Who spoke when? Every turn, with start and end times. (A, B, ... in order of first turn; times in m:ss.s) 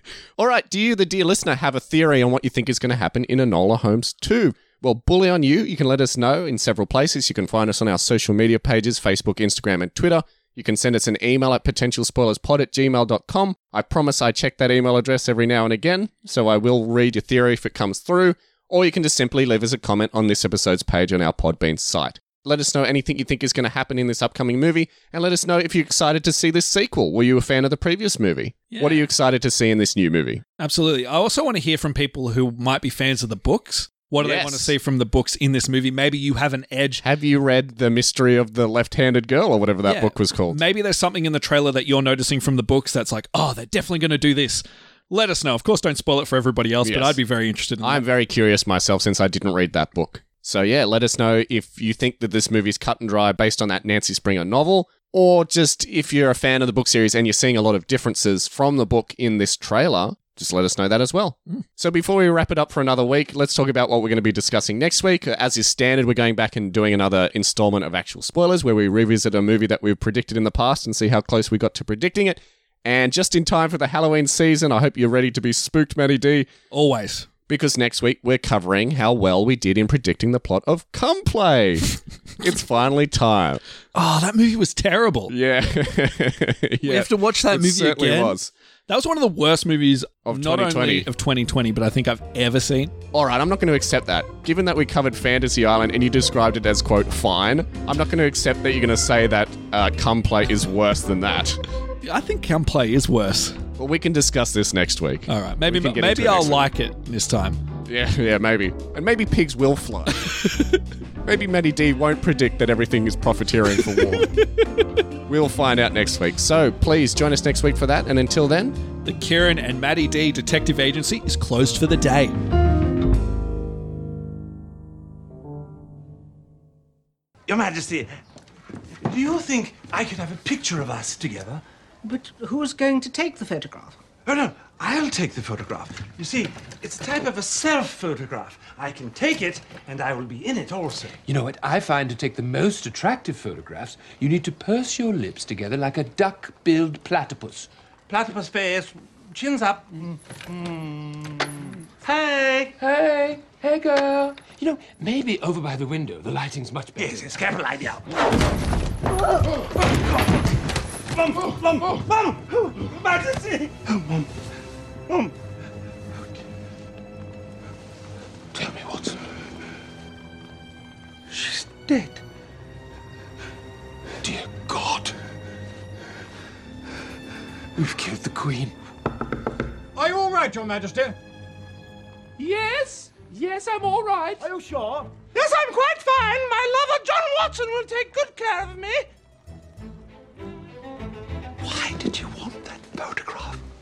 0:00.4-0:30.4 A
0:28.7-0:29.0 B
0:30.6-0:37.0 B
0:34.2-0:34.7 A
0:37.0-0:40.6 A
0:39.8-0:48.0 B
0:46.8-0:47.2 A
0:47.8-1:16.5 A
1:16.7-1:17.3 B
1:17.5-1:23.6 A
1:23.9-1:25.3 B
1:25.3-1:28.5 A
1:26.8-1:28.4 B
1:28.9-1:32.9 B
1:30.2-1:31.1 A
1:33.1-1:41.6 A
1:42.0-1:43.6 B
1:43.8-1:46.7 A
1:45.3-1:47.6 B
1:47.8-1:50.3 A
1:50.2-1:50.8 B
1:51.2-1:54.3 A
1:53.8-1:54.7 B
1:55.3-1:58.8 A
1:59.0-2:02.4 B
2:07.5-2:08.1 C
2:09.0-2:11.6 C
2:12.0-2:14.0 D
2:12.2-2:13.2 C
2:14.2-2:21.2 C
2:21.2-2:27.7 E
2:28.1-2:32.7 C
2:32.8-2:37.3 E
2:37.0-2:38.0 C
2:41.1-2:44.2 C
2:48.5-2:49.2 E
2:51.3-2:52.2 E
2:54.2-2:55.2 E
2:57.8-2:58.7 E
3:00.0-3:01.2 F
3:02.4-3:04.4 C
3:04.4-3:05.2 F
3:05.3-3:09.1 C
3:11.6-3:13.6 C